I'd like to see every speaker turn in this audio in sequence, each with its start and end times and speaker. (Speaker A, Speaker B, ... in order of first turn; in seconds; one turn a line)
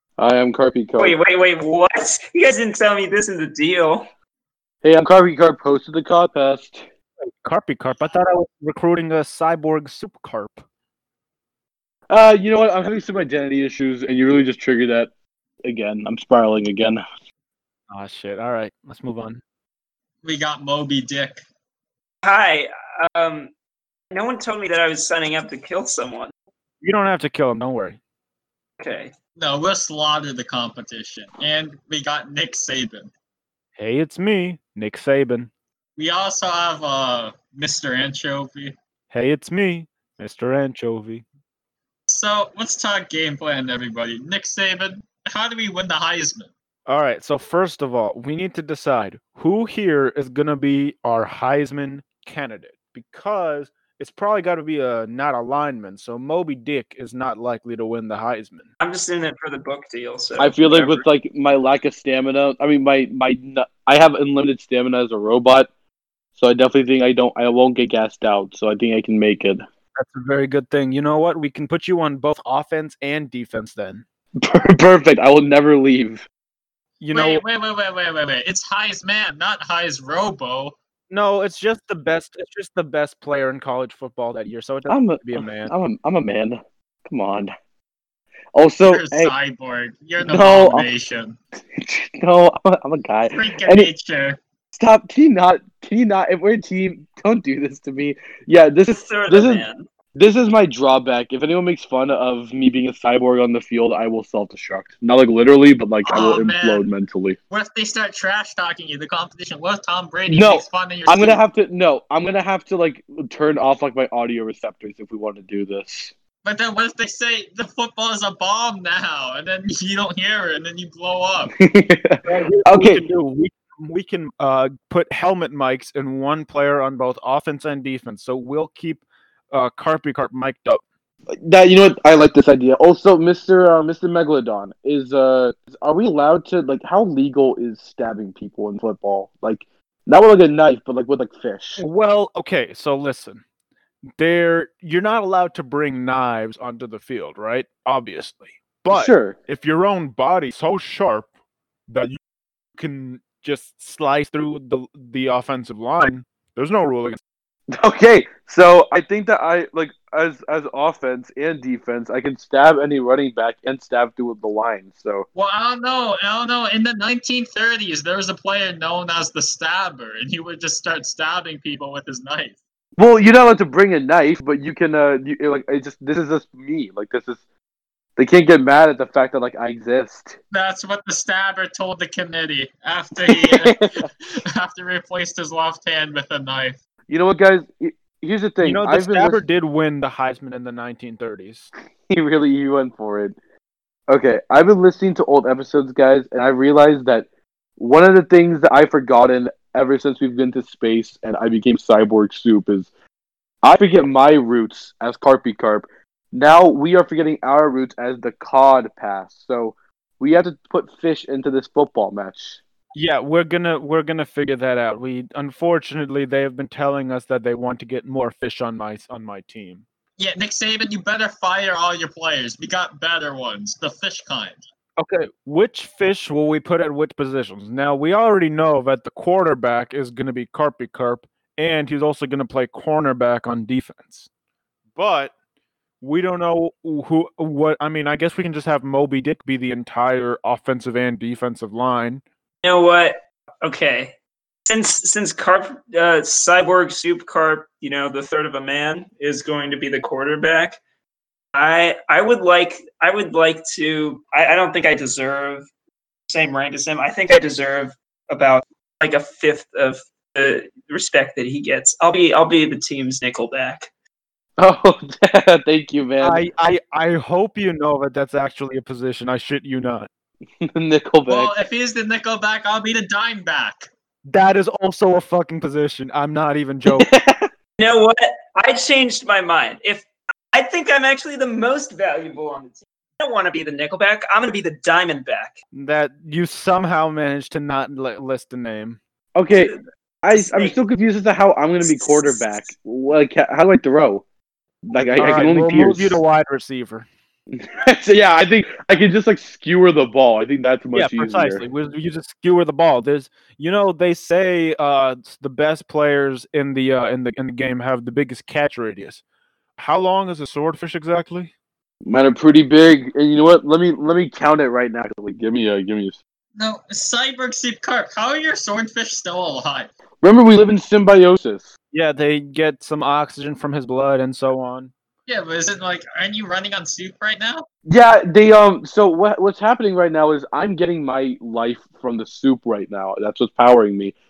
Speaker A: 0.2-1.1
Speaker B: 1.0-4.1
Speaker A: 4.8-6.8
Speaker C: 7.4-10.6
Speaker A: 12.1-15.1
Speaker A: 15.6-17.0
Speaker C: 17.9-19.4
Speaker D: 20.2-21.4
Speaker B: 22.2-23.5
Speaker B: 24.1-26.3
Speaker C: 26.8-28.0
Speaker B: 28.8-29.1
Speaker D: 29.4-33.1
Speaker C: 33.8-35.5
Speaker D: 36.0-38.8
Speaker C: 39.1-41.2
Speaker D: 42.1-46.5
Speaker C: 46.9-58.7
Speaker B: 58.8-61.0
Speaker A: 60.4-65.7
Speaker A: 66.4-69.6
Speaker C: 70.0-74.0
Speaker A: 74.4-76.3
Speaker C: 77.0-77.4
Speaker D: 77.1-80.8
Speaker C: 81.1-85.7
Speaker A: 84.9-87.5
Speaker A: 88.5-89.3
Speaker D: 88.8-91.4
Speaker A: 90.2-90.9
Speaker A: 91.7-93.9
Speaker D: 93.3-94.4
Speaker A: 94.7-107.4
Speaker B: 98.9-99.9
Speaker D: 106.0-106.8
Speaker D: 107.5-111.4
Speaker A: 110.3-116.1
Speaker D: 116.5-121.5
Speaker A: 121.6-123.0
Speaker C: 122.2-130.8
Speaker A: 131.3-141.8
Speaker C: 141.8-143.4
Speaker C: 144.2-151.3
Speaker A: 148.9-149.3
Speaker C: 151.9-152.2
Speaker C: 152.8-157.2
Speaker A: 157.7-165.2
Speaker D: 165.3-172.6
Speaker A: 173.0-177.4
Speaker A: 178.2-180.3
Speaker D: 180.5-186.8
Speaker A: 183.2-183.9
Speaker A: 187.1-189.4
Speaker C: 188.6-191.7
Speaker A: 192.1-193.3
Speaker A: 194.1-197.2
Speaker A: 197.8-202.9
Speaker A: 203.6-212.6
Speaker C: 212.9-219.8
Speaker D: 220.2-224.6
Speaker C: 225.0-234.3
Speaker C: 234.9-235.3
Speaker C: 236.0-242.2
Speaker B: 242.6-250.8
Speaker B: 251.5-255.7
Speaker B: 256.3-263.9
Speaker A: 264.6-266.4
Speaker C: 266.2-270.1
Speaker A: 270.6-271.5
Speaker D: 271.3-273.9
Speaker C: 274.2-277.1
Speaker A: 276.9-277.5
Speaker B: 277.8-285.6
Speaker C: 285.7-289.0
Speaker A: 289.4-289.7
Speaker B: 289.5-289.8
Speaker A: 290.2-294.2
Speaker B: 290.3-290.8
Speaker B: 291.9-292.4
Speaker A: 294.9-296.2
Speaker C: 295.2-297.1
Speaker A: 297.5-301.6
Speaker C: 300.9-309.2
Speaker C: 309.8-311.5
Speaker A: 312.1-316.2
Speaker D: 316.6-319.9
Speaker A: 320.2-321.7
Speaker C: 321.9-324.9
Speaker D: 325.3-327.7
Speaker A: 327.9-334.1